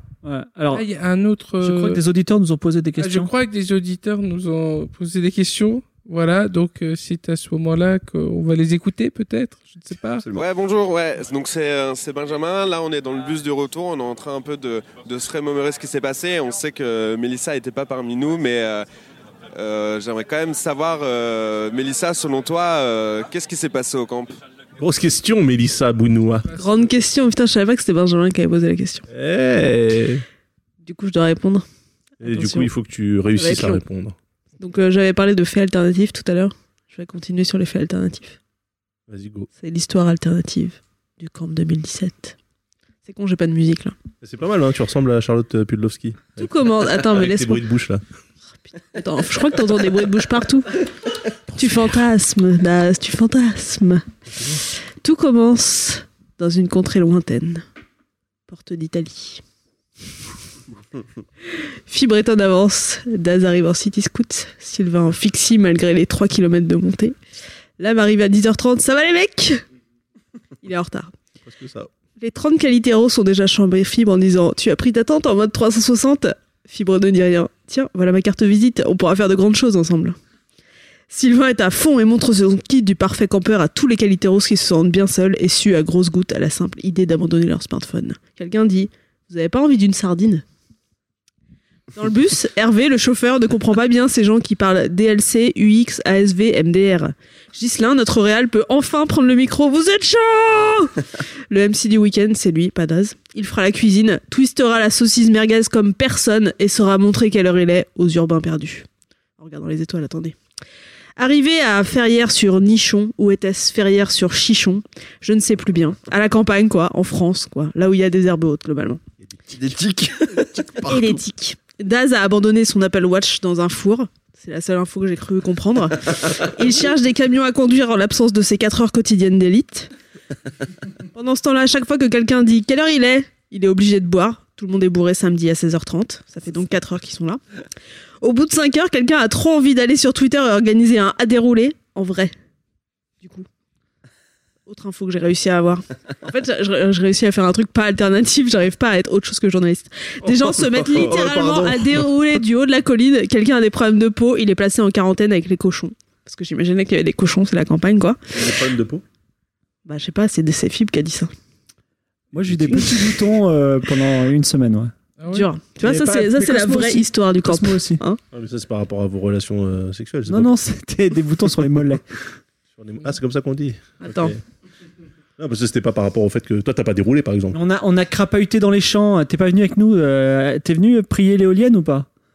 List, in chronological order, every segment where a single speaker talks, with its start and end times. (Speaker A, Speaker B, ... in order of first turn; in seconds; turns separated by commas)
Speaker A: 0.2-0.8, Speaker B: 0.7-2.0, Speaker A: 1.6-3.3, Speaker B: 3.0-10.2, Speaker C: 10.2-10.4, Speaker D: 10.3-18.8, Speaker D: 19.5-24.4, Speaker E: 24.8-26.5, Speaker F: 26.5-29.0, Speaker E: 29.1-30.2, Speaker F: 30.8-31.6, Speaker F: 32.2-32.7, Speaker E: 32.2-34.1, Speaker F: 33.3-33.8, Speaker F: 34.6-38.4, Speaker E: 39.1-39.5, Speaker F: 39.6-42.4, Speaker F: 43.0-43.9, Speaker E: 44.2-48.0, Speaker F: 46.4-47.6, Speaker F: 48.6-50.7, Speaker F: 51.5-54.0, Speaker F: 55.0-57.6, Speaker F: 58.5-59.4, Speaker F: 61.9-67.1, Speaker F: 67.8-69.6, Speaker F: 70.6-71.1, Speaker E: 71.4-71.9, Speaker F: 72.2-80.2, Speaker F: 81.1-90.4, Speaker F: 91.9-100.9, Speaker F: 101.5-108.8, Speaker F: 109.4-110.3, Speaker F: 111.2-119.0, Speaker C: 119.5-121.2, Speaker F: 120.8-129.9, Speaker F: 131.1-137.4, Speaker F: 138.2-142.3, Speaker F: 143.2-143.5, Speaker F: 144.7-158.2, Speaker E: 150.8-152.1, Speaker C: 150.9-151.2, Speaker E: 158.3-159.0, Speaker F: 159.8-161.3, Speaker A: 162.3-164.9, Speaker E: 162.4-162.8, Speaker B: 165.2-165.5, Speaker F: 165.3-168.2, Speaker A: 165.8-168.0, Speaker E: 168.3-170.5, Speaker A: 170.3-172.0, Speaker E: 172.8-174.4, Speaker F: 174.0-174.3, Speaker E: 175.4-177.6, Speaker A: 177.5-182.1